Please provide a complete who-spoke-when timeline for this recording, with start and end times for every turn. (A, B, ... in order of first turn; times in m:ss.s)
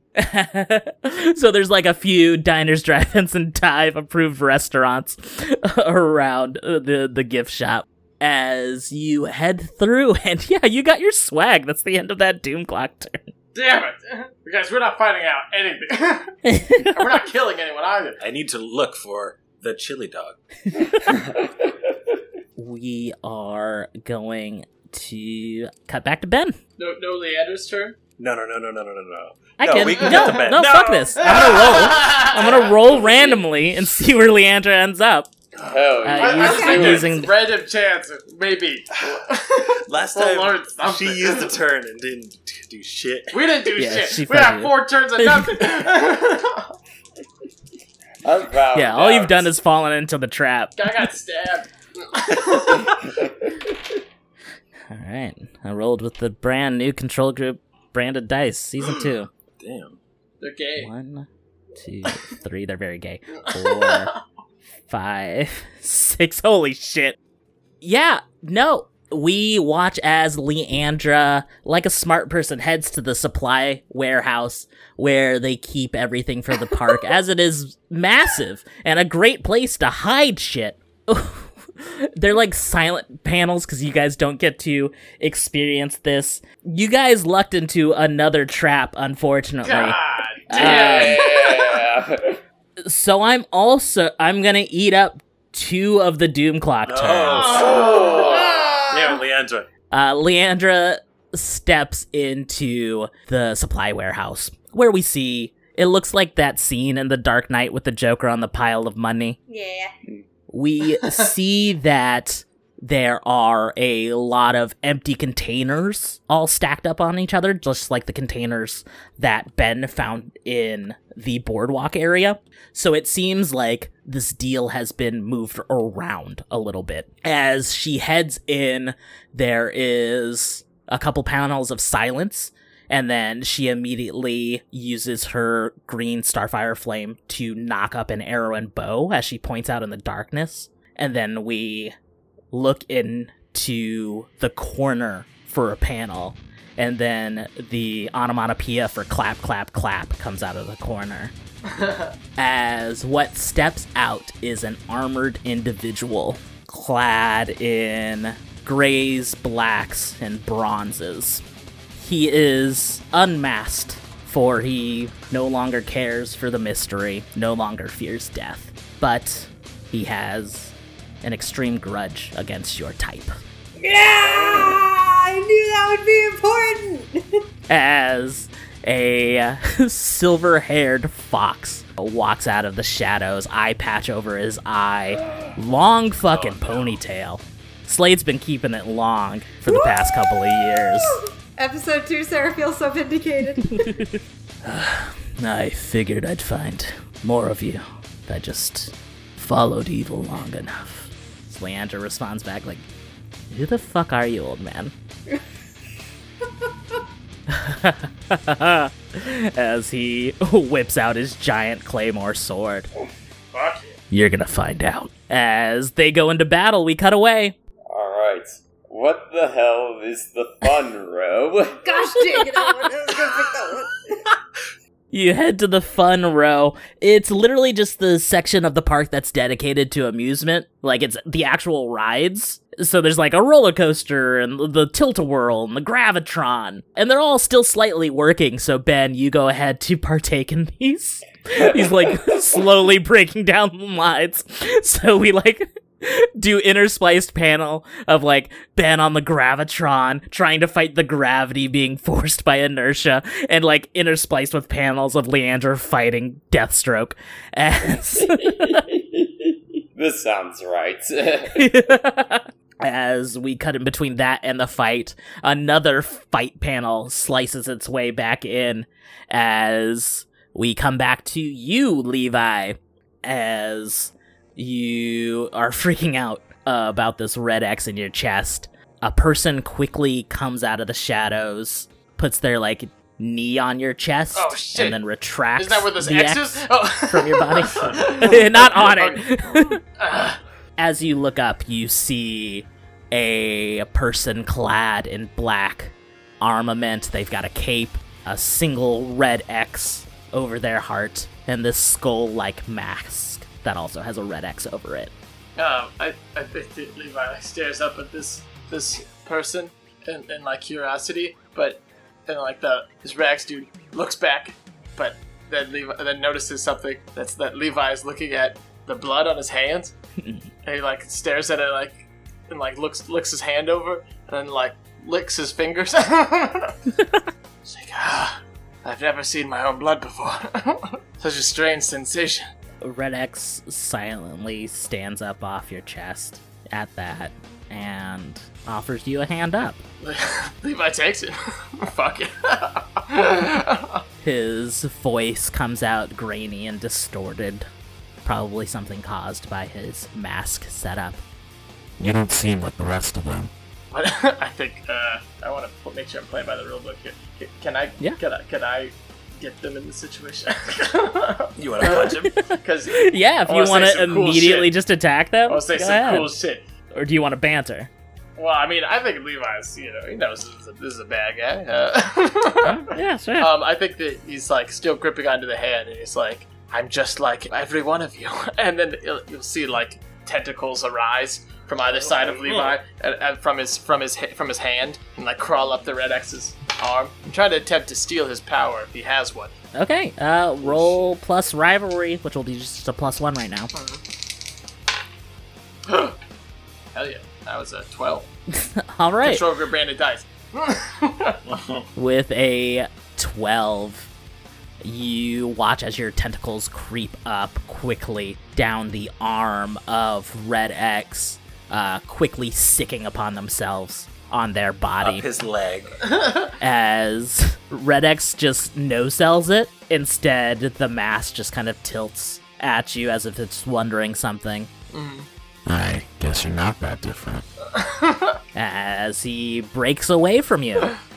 0:00.2-0:13.2 A
0:13.5-0:18.2 B
0:16.4-0:17.0 A
0:18.2-0:20.4 C
0:21.0-0:21.5 D
0:22.6-0:26.6 A
0:26.8-0:28.0 B
0:28.2-0:32.6 C
0:29.6-0:35.3 A
0:30.0-0:30.4 B
0:31.2-0:33.3 B
0:35.6-0:37.3 D
0:36.0-0:37.4 A
0:36.0-0:41.6 B
0:36.4-0:37.0 E
0:39.8-0:43.4 C
0:43.3-0:46.7 B
0:43.8-0:45.6 A
0:48.2-0:49.5 D
0:48.7-0:50.8 A
0:50.8-0:53.0 B
0:54.9-0:59.3 A
0:59.6-1:00.0 C
1:00.4-1:00.9 B
1:00.8-1:01.3 A
1:01.8-1:04.1 A
1:03.5-1:04.2 B
1:04.9-1:07.2 A
1:07.8-1:30.0 A
1:29.6-1:31.5 B
1:30.5-1:31.2 A
1:30.5-1:32.4 D
1:32.8-1:37.6 A
1:36.8-1:39.7 C
1:37.4-1:38.7 B
1:37.7-1:38.6 D
1:38.1-1:39.2 E
1:39.9-1:49.4 A
1:49.5-1:49.9 E
1:50.5-2:21.9 A
1:51.0-1:51.3 B
2:22.5-2:31.3 A
2:31.7-2:32.1 B
2:32.4-2:41.4 A
2:42.0-2:53.4 A
2:53.8-2:57.4 E
2:57.7-3:11.2 A
3:06.3-3:06.9 C
3:09.7-3:14.0 E
3:14.6-3:22.8 A
3:23.5-3:24.9 A
3:27.5-3:32.9 A
3:33.5-3:34.0 B
3:34.1-3:37.5 A
3:37.9-3:41.8 D
3:41.8-3:44.2 E
3:45.1-4:18.8 A
4:18.2-4:21.7 D
4:21.5-4:49.8 A
4:44.3-4:45.0 B
4:45.6-4:50.4 B
4:50.8-5:05.1 A
5:05.6-5:19.9 B
5:20.2-5:20.5 A
5:20.6-5:26.7 B
5:27.0-5:27.2 A
5:27.6-5:32.4 B
5:32.8-5:39.8 A
5:40.0-5:44.0 B
5:44.2-5:47.7 A
5:48.2-5:51.2 A
5:52.0-5:53.5 F
5:53.9-6:04.7 B
6:01.6-6:02.2 C
6:02.3-6:06.3 A
6:05.4-6:06.6 B
6:06.9-6:07.9 A
6:08.4-6:29.5 B
6:12.6-6:13.5 A
6:29.7-6:33.7 A
6:30.6-6:31.0 B
6:33.7-6:34.0 B
6:35.8-6:36.2 B
6:36.9-6:38.3 B
6:38.5-6:39.4 A
6:39.2-6:41.4 B
6:41.5-6:41.8 C
6:42.0-6:44.1 A
6:44.8-6:55.3 A
6:55.0-6:56.2 C
6:56.0-6:56.4 B
6:56.6-7:04.7 A
7:04.9-7:05.3 B
7:05.6-7:07.4 F
7:07.7-7:08.4 B
7:08.5-7:10.9 A